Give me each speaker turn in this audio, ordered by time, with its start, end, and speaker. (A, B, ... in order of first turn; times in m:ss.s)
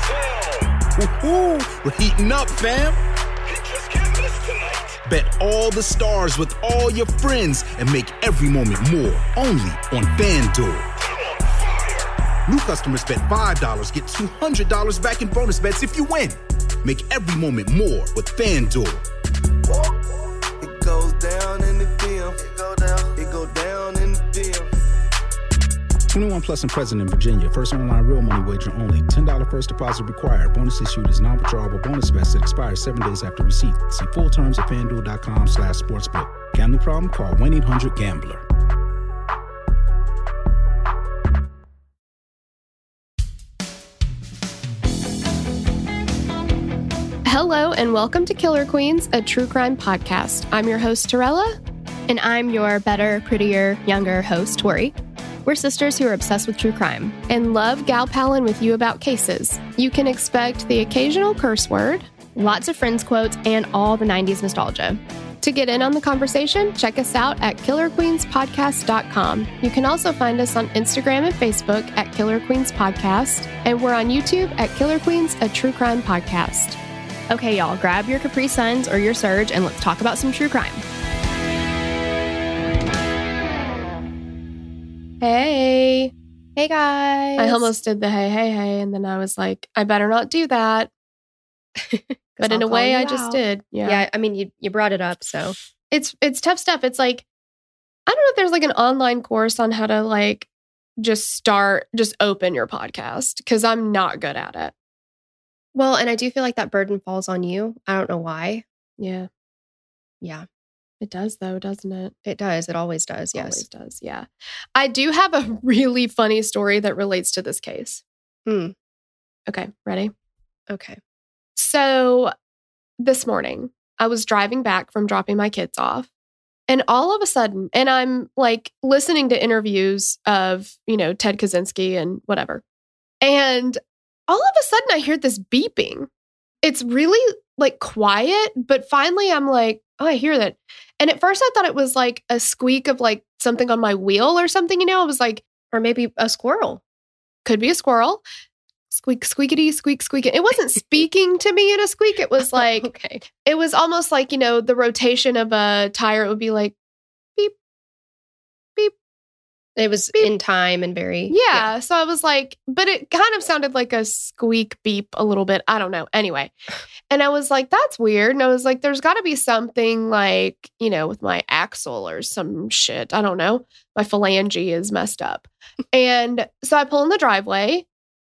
0:00.4-0:03.0 A
0:04.4-0:10.9 A
0:12.5-0:19.0 A
0:19.7-0:24.7 B
0:26.1-0:38.4 A
0:47.2-0:51.6 C
0:52.1-0:57.2 D
0:57.3-1:02.1 C
1:02.4-1:05.0 D
1:05.4-1:16.8 C
1:17.3-1:20.8 D
1:25.2-1:26.1 C
1:26.6-1:27.7 D
1:27.4-1:30.9 C
1:31.8-1:35.6 D
1:32.4-1:34.0 C
1:35.9-1:37.2 C
1:38.1-1:44.7 C
1:45.7-1:48.6 D
1:49.0-1:49.3 C
1:51.0-1:52.1 C
1:52.2-1:53.6 D
1:53.3-1:58.0 C
1:58.5-1:58.8 D
1:59.5-2:00.1 C
2:00.7-2:01.0 D
2:01.6-2:02.3 C
2:03.0-2:06.1 C
2:06.7-2:12.6 C
2:13.2-2:16.1 C
2:16.6-2:25.4 C
2:25.7-2:26.8 D
2:27.4-2:28.2 C
2:28.9-2:36.7 C
2:32.6-2:33.2 D
2:39.8-2:41.7 D
2:41.3-2:46.5 C
2:47.1-2:57.8 C